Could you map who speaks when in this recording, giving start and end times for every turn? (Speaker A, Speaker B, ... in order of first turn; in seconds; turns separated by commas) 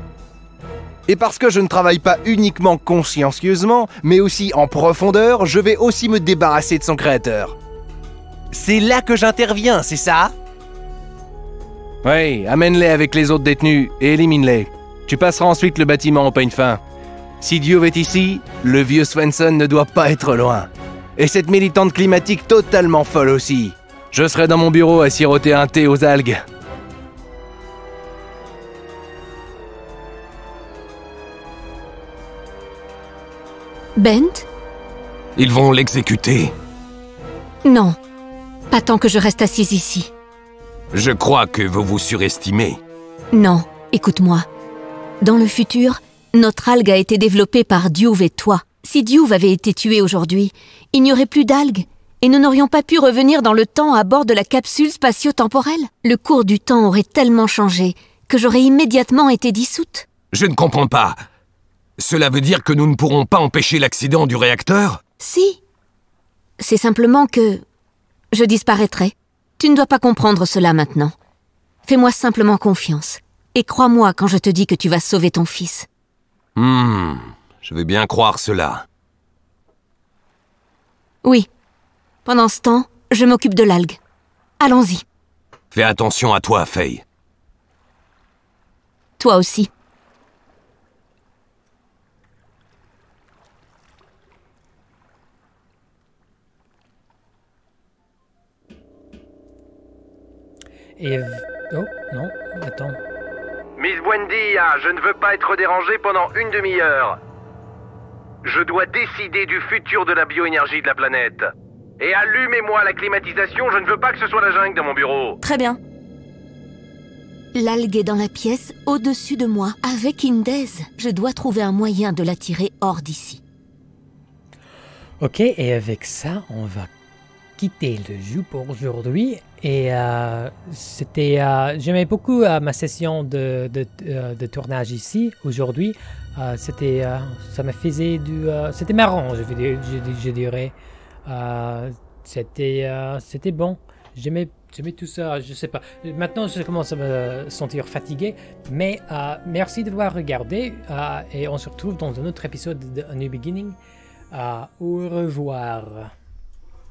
Speaker A: 1.1-7.5, Speaker A: 8.5-10.3, Speaker A: 12.0-16.8, Speaker A: 17.4-26.4, Speaker B: 34.0-34.5, Speaker C: 35.4-36.5, Speaker B: 37.6-38.0, Speaker B: 38.7-40.1, Speaker C: 40.9-42.8, Speaker B: 43.3-44.5, Speaker B: 45.2-60.1, Speaker C: 60.3-61.2, Speaker C: 62.0-65.0, Speaker B: 65.2-65.6, Speaker B: 66.6-67.6, Speaker B: 68.3-71.1, Speaker B: 71.8-75.9, Speaker C: 76.5-78.8, Speaker B: 81.2-81.5, Speaker B: 82.2-84.0, Speaker B: 84.6-85.0, Speaker C: 85.7-87.0, Speaker B: 89.2-89.7, Speaker D: 101.0-103.0, Speaker A: 103.8-107.2, Speaker A: 108.4-115.4, Speaker B: 115.4-115.8, Speaker B: 117.5-123.4, Speaker D: 125.2-126.9, Speaker D: 127.6-153.8, Speaker D: 154.3-156.1